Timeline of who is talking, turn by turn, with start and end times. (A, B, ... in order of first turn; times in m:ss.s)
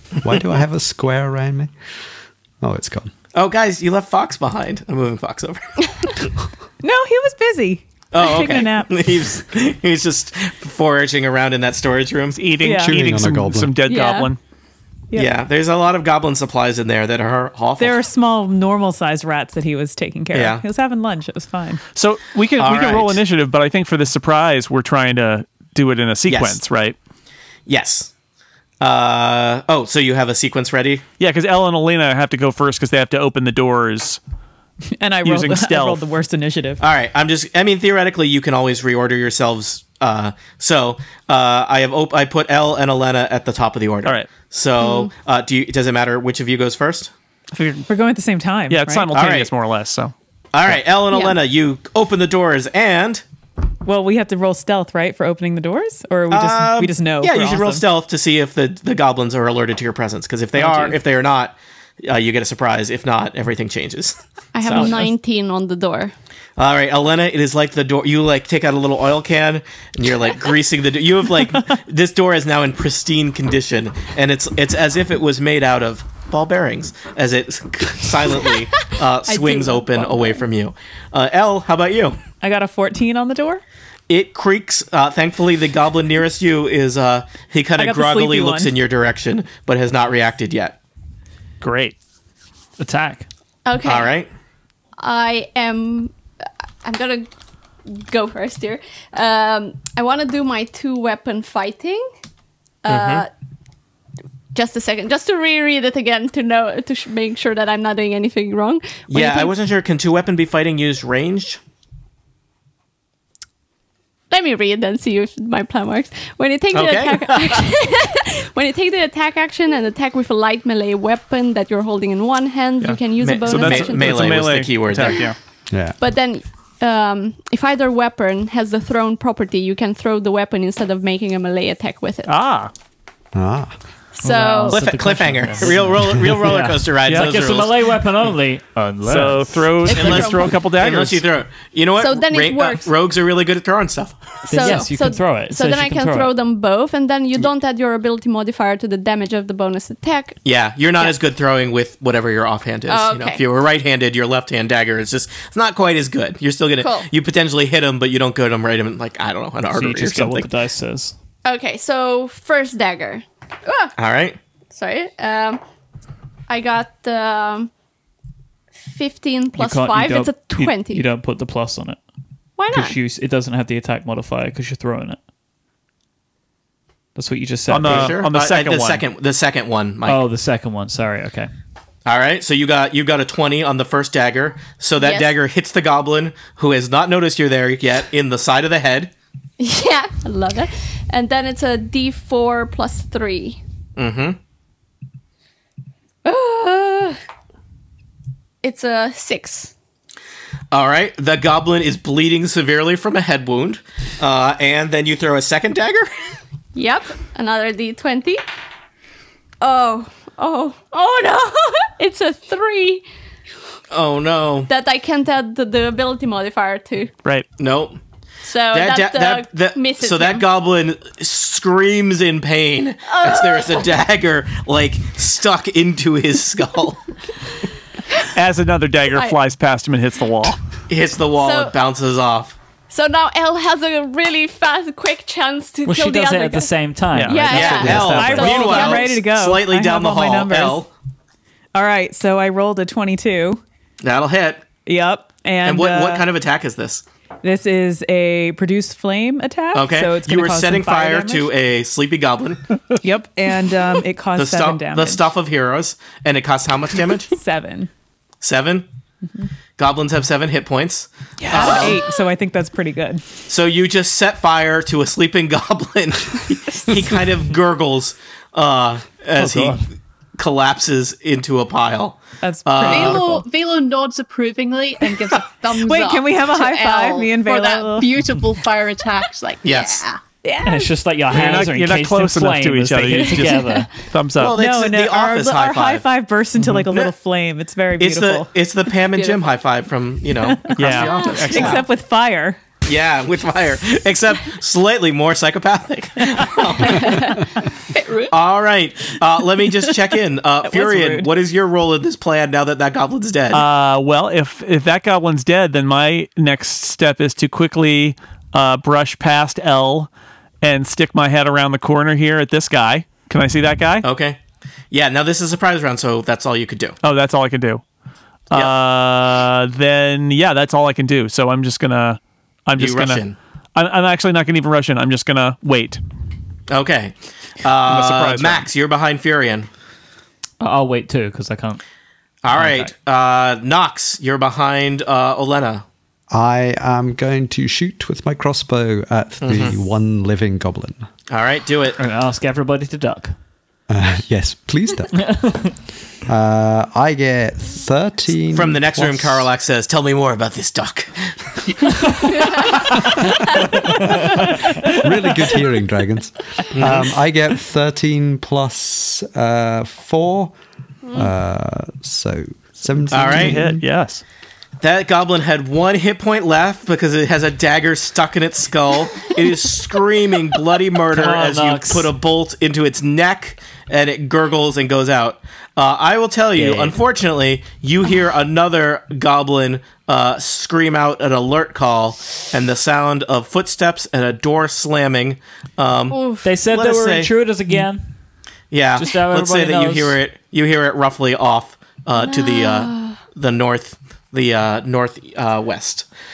0:00.2-0:01.7 A
0:02.6-0:03.1 A
0:03.4-0:05.8 B
0:06.8-0:09.0 C
0:08.1-0:12.4 B
0:12.4-0:14.4 D
0:12.6-0:13.0 C
0:12.8-0:13.8 A
0:13.9-0:14.3 E
0:15.1-0:18.0 B
0:17.8-0:21.8 C
0:20.3-0:20.6 B
0:22.0-0:27.0 D
0:22.6-0:23.2 B
0:26.3-0:26.6 B
0:27.7-0:28.1 B
0:28.8-0:31.0 B
0:31.2-0:34.2 D
0:34.9-0:36.8 C
0:35.2-0:36.0 D
0:36.8-0:47.1 B
0:44.8-0:45.1 E
0:47.5-0:47.9 D
0:47.9-0:49.1 C
0:48.7-0:50.1 D
0:49.1-0:49.5 B
0:50.5-0:53.2 B
0:51.1-0:51.4 E
0:53.8-0:57.8 C
0:56.3-1:04.9 B
1:00.6-1:01.0 C
1:04.6-1:06.1 E
1:04.8-1:05.1 C
1:06.6-1:22.2 B
1:19.3-1:20.4 E
1:22.4-1:23.6 C
1:24.1-1:30.8 B
1:27.8-1:28.7 C
1:31.6-1:32.0 D
1:32.8-1:33.3 F
1:33.7-1:34.1 E
1:33.8-1:34.3 B
1:35.0-1:36.1 E
1:36.8-1:37.3 E
1:37.9-1:42.1 E
1:42.8-1:43.3 E
1:42.9-1:43.3 B
1:44.5-1:49.5 E
1:49.1-1:51.6 B
1:54.3-2:04.4 E
1:56.7-1:57.7 B
2:02.8-2:05.4 D
2:03.2-2:05.2 B
2:04.9-2:05.3 E
2:05.7-2:06.0 A
2:06.0-2:12.3 E
2:12.3-2:12.7 D
2:13.4-2:13.7 A
2:14.2-2:14.8 E
2:14.2-2:19.9 F
2:14.7-2:17.7 B
2:17.0-2:17.4 D
2:19.0-2:21.2 D
2:19.9-2:20.5 E
2:19.9-2:24.2 B
2:22.0-2:22.9 E
2:24.5-2:26.3 F
2:24.5-2:30.4 E
2:30.4-2:40.5 B
2:32.9-2:33.4 E
2:36.8-2:37.1 E
2:39.7-2:41.2 F
2:41.4-2:43.9 E
2:44.0-2:44.4 B
2:44.7-2:45.6 E
2:46.5-2:47.7 E
2:48.9-2:51.0 E
2:49.6-2:52.0 F
2:52.6-2:53.0 E
2:52.7-2:55.2 F
2:57.2-2:58.2 F
2:57.7-2:59.1 D
2:57.8-3:00.2 B
3:00.0-3:01.5 F
3:02.1-3:09.1 B
3:05.0-3:05.3 E
3:09.6-3:13.6 E
3:14.0-3:14.4 B
3:16.2-3:17.2 E
3:18.6-3:19.7 E
3:20.7-3:26.1 B
3:26.8-3:28.4 E
3:29.6-3:33.0 E
3:33.9-3:34.7 B
3:34.7-3:37.1 E
3:37.6-3:38.0 B
3:38.4-3:40.4 E
3:38.7-3:47.0 B
3:43.1-3:43.9 E
3:48.2-3:50.6 D
3:50.9-3:52.6 B
3:51.4-3:51.8 E
3:52.9-3:59.1 E
3:55.8-3:58.6 F
3:57.1-3:57.5 D
3:57.5-4:00.9 B
3:58.0-4:00.8 C
4:01.8-4:03.6 C
4:04.0-4:04.6 B
4:04.9-4:06.3 C
4:05.6-4:07.0 B
4:07.4-4:11.5 C
4:09.7-4:12.8 B
4:13.0-4:15.2 C
4:14.4-4:17.3 B
4:17.3-4:17.9 C
4:18.4-4:18.9 B
4:19.8-4:22.0 B
4:21.4-4:22.0 D
4:21.5-4:23.2 C
4:23.5-4:29.8 B
4:29.4-4:29.7 D
4:30.4-4:33.3 B
4:32.4-4:33.4 C
4:32.8-4:40.2 G
4:35.8-4:38.2 C
4:39.6-4:40.0 B
4:40.4-4:41.0 C
4:40.6-4:44.0 F
4:41.3-4:44.6 D
4:43.3-4:43.8 C
4:44.4-4:46.1 B
4:44.4-4:48.5 C
4:48.0-4:51.8 B
4:50.4-4:52.6 C
4:50.8-4:51.8 D
4:51.0-4:51.5 E
4:52.8-4:57.4 B
4:57.9-4:58.4 G
4:58.3-5:03.6 B
5:00.7-5:01.3 C
5:03.5-5:10.1 D
5:10.6-5:14.1 D
5:14.0-5:14.4 B
5:14.9-5:17.0 B
5:17.0-5:17.8 D
5:18.5-5:26.0 D
5:22.8-5:23.4 B
5:26.7-5:29.7 B
5:27.8-5:28.7 D
5:30.6-5:31.8 F
5:32.4-5:35.8 B
5:32.5-5:32.9 F
5:36.3-5:41.0 A
5:39.4-5:39.7 B
5:41.3-5:42.0 B
5:42.0-5:43.4 F
5:43.9-5:45.2 A
5:45.2-5:45.7 F
5:46.3-5:49.5 A
5:48.5-5:52.7 B
5:54.8-6:00.5 A
5:56.7-5:57.0 B
6:01.0-6:01.3 E
6:01.1-6:03.8 A
6:03.1-6:03.6 B
6:03.2-6:04.2 D
6:04.8-6:27.3 B
6:11.1-6:12.1 F
6:16.5-6:17.0 F
6:26.1-6:26.5 E
6:26.4-6:28.2 F
6:28.7-6:36.1 B
6:29.0-6:30.2 F
6:32.2-6:33.2 E